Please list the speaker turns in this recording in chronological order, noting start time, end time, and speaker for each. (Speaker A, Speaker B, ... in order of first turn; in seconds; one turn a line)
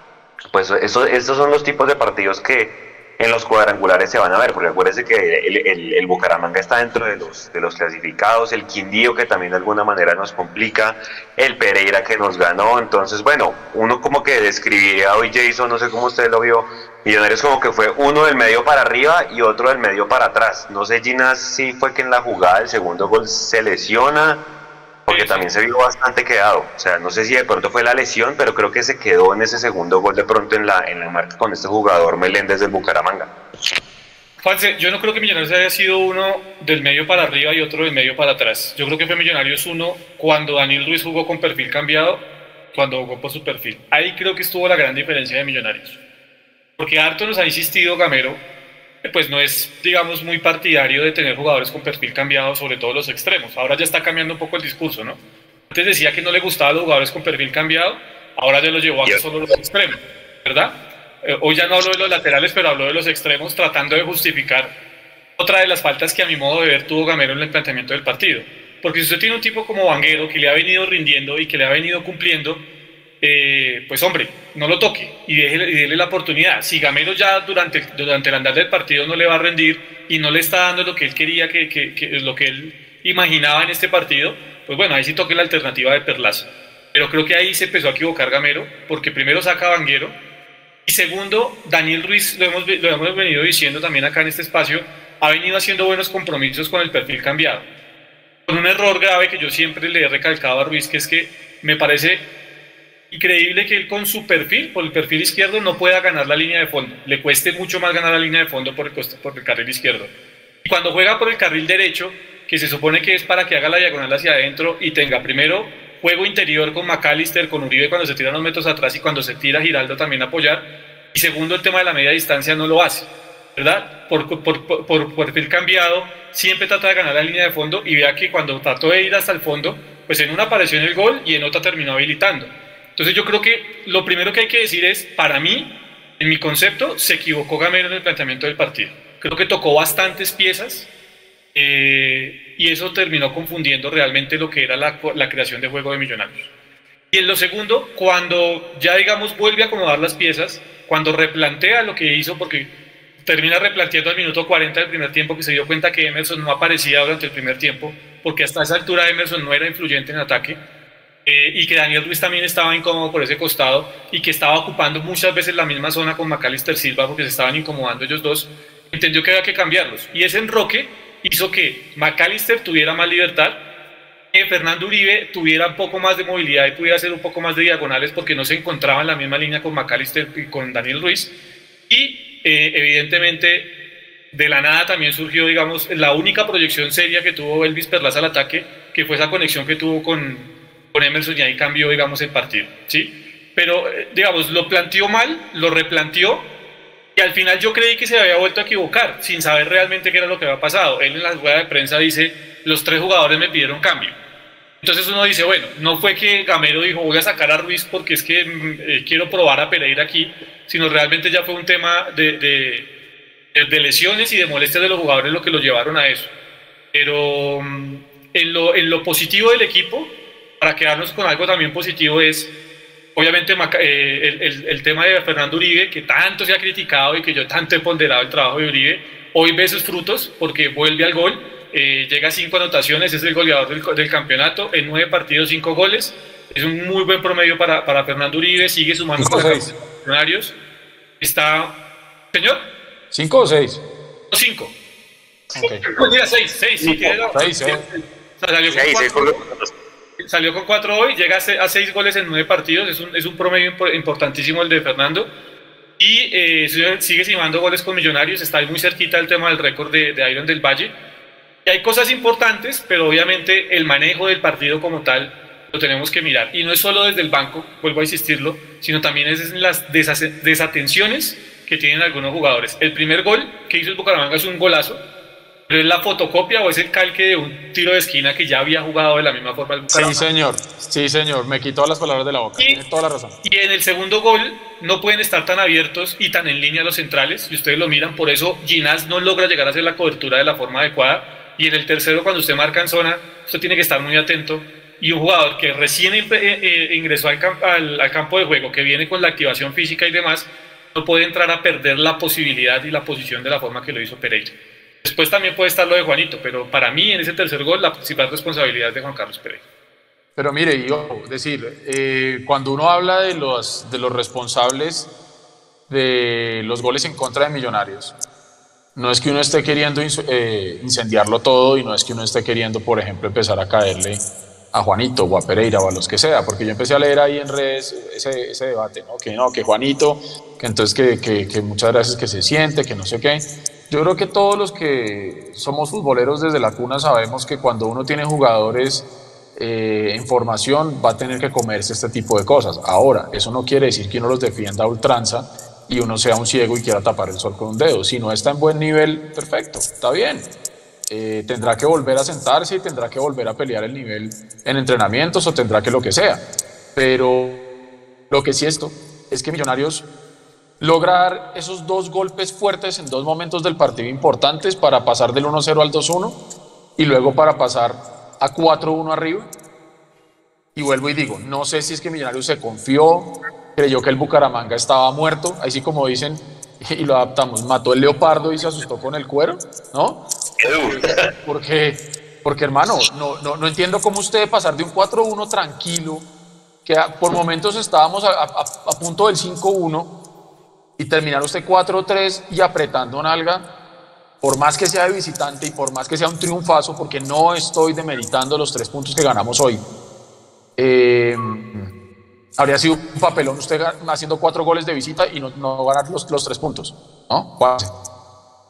Speaker A: 0.5-24.4
Speaker A: 25.1-33.3
Speaker B: 25.1-25.5
Speaker B: 34.4-46.0
Speaker B: 46.8-48.4
Speaker B: 49.0-64.7
Speaker B: 65.4-72.6
Speaker B: 73.2-90.2
Speaker B: 90.8-97.7
Speaker B: 98.5-102.3
Speaker B: 103.1-110.1
Speaker B: 110.6-140.9
Speaker B: 141.5-146.5
Speaker B: 147.1-152.7
Speaker B: 153.2-160.6
Speaker B: 161.2-173.6
Speaker B: 174.3-181.3
Speaker B: 181.9-183.7
Speaker B: 184.3-196.5
Speaker B: 197.1-204.2
Speaker B: 204.8-212.9
Speaker B: 213.5-216.3
Speaker B: 216.9-222.5
Speaker B: 223.1-240.5
Speaker C: 239.2-239.7
Speaker B: 241.2-241.8
Speaker B: 242.3-242.7
Speaker C: 243.1-243.8
Speaker B: 244.3-244.7
Speaker C: 245.5-245.8
Speaker B: 245.6-249.4
Speaker A: 246.8-247.1
Speaker C: 247.3-247.8
Speaker A: 248.7-249.7
Speaker B: 250.2-255.3
Speaker B: 256.0-260.9
Speaker B: 261.6-275.0
Speaker B: 275.7-280.2
Speaker C: 279.9-283.4
Speaker B: 283.4-309.6
Speaker C: 310.4-315.1
Speaker C: 315.9-318.1
Speaker C: 318.9-324.2
Speaker C: 324.7-339.0
Speaker C: 339.6-350.5
Speaker C: 351.1-356.4
Speaker C: 356.9-357.6
Speaker C: 358.3-360.1
Speaker C: 360.8-366.4
Speaker C: 367.0-369.5
Speaker C: 370.8-380.2
Speaker A: 380.6-381.3
Speaker C: 380.9-386.2
Speaker C: 386.9-390.1
Speaker C: 391.0-393.6
Speaker C: 394.4-399.8
Speaker C: 400.8-401.9
Speaker C: 402.6-407.9